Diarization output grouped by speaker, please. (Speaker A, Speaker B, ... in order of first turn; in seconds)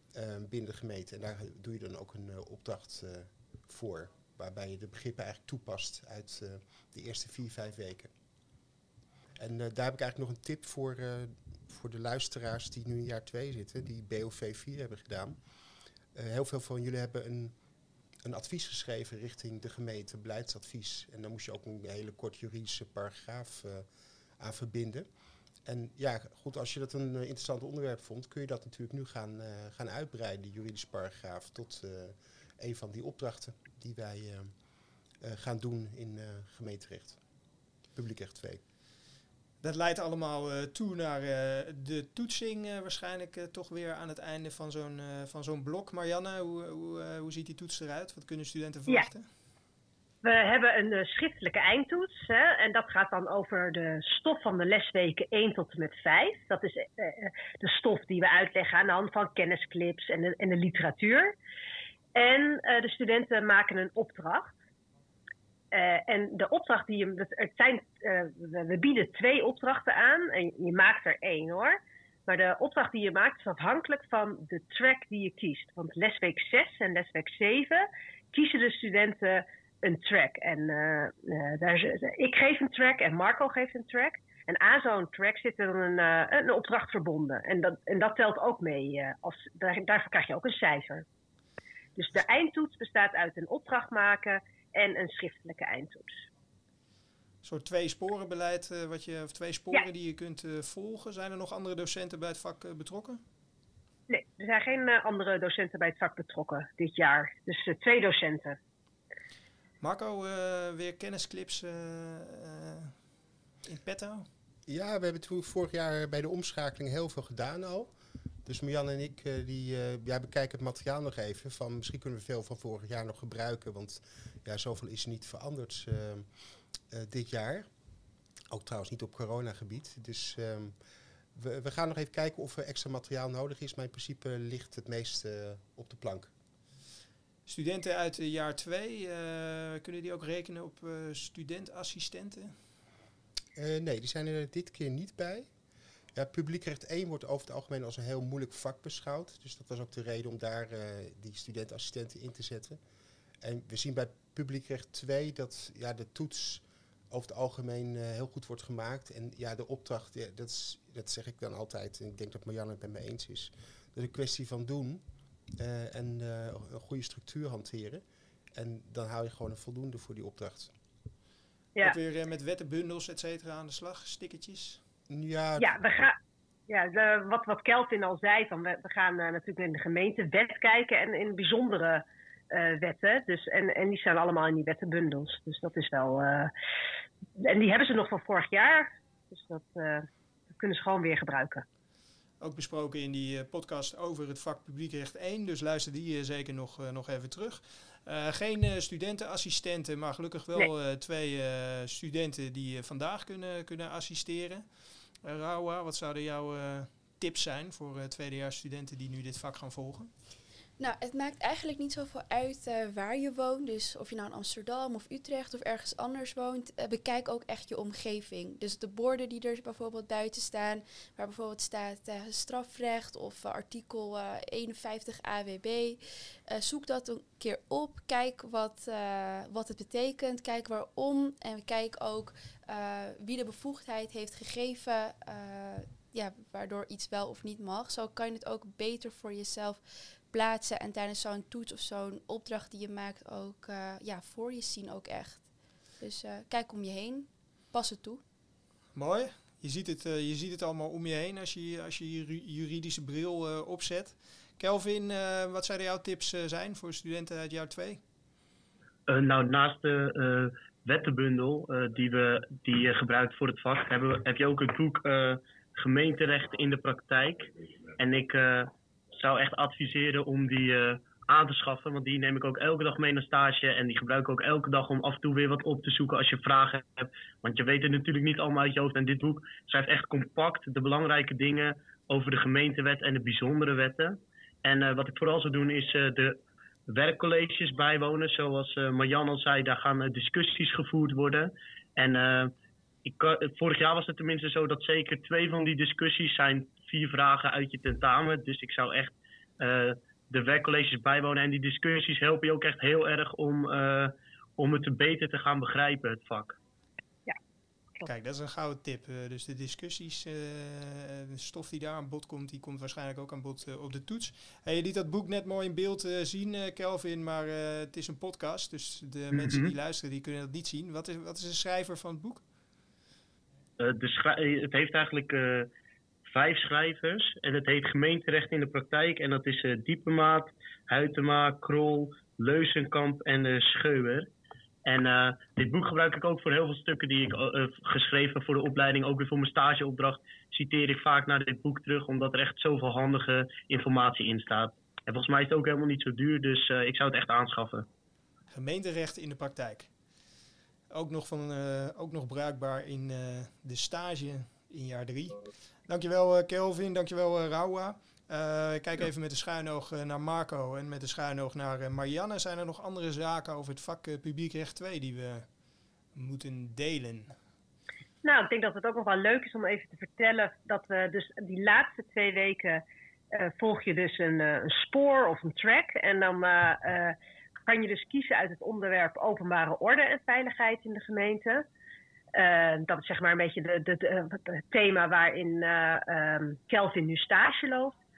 Speaker A: 0.1-8.1, 9.4-15.4, 16.1-17.5, 18.2-23.9, 24.4-25.1, 25.7-34.5, 35.2-37.2, 38.0-38.6, 114.7-117.9, 118.5-126.3, 126.9-127.7, 128.5-130.8, 131.4-136.3, 143.6-145.5, 146.2-152.8, 153.4-165.0, 165.6-168.0, 168.6-170.7, 175.1-175.8
Speaker B: 39.6-49.3, 97.4-103.2, 109.8-112.9, 113.7-114.3, 137.5-142.5, 171.8-174.8, 192.4-204.7, 205.2-210.1, 248.9-258.0, 308.0-322.4, 348.5-349.9, 350.9-365.5, 366.1-367.4
Speaker C: 50.2-61.3, 62.1-64.5, 65.7-71.8, 72.3-91.0, 92.0-96.2, 104.1-108.6, 175.6-176.2, 176.7-186.5, 187.4-191.6, 368.2-377.1, 377.7-381.6, 382.4-388.0
Speaker D: 210.8-248.2
Speaker E: 259.1-286.4, 286.9-292.5, 293.1-306.6, 319.3-319.7, 323.8-325.7, 326.3-334.3, 334.9-347.9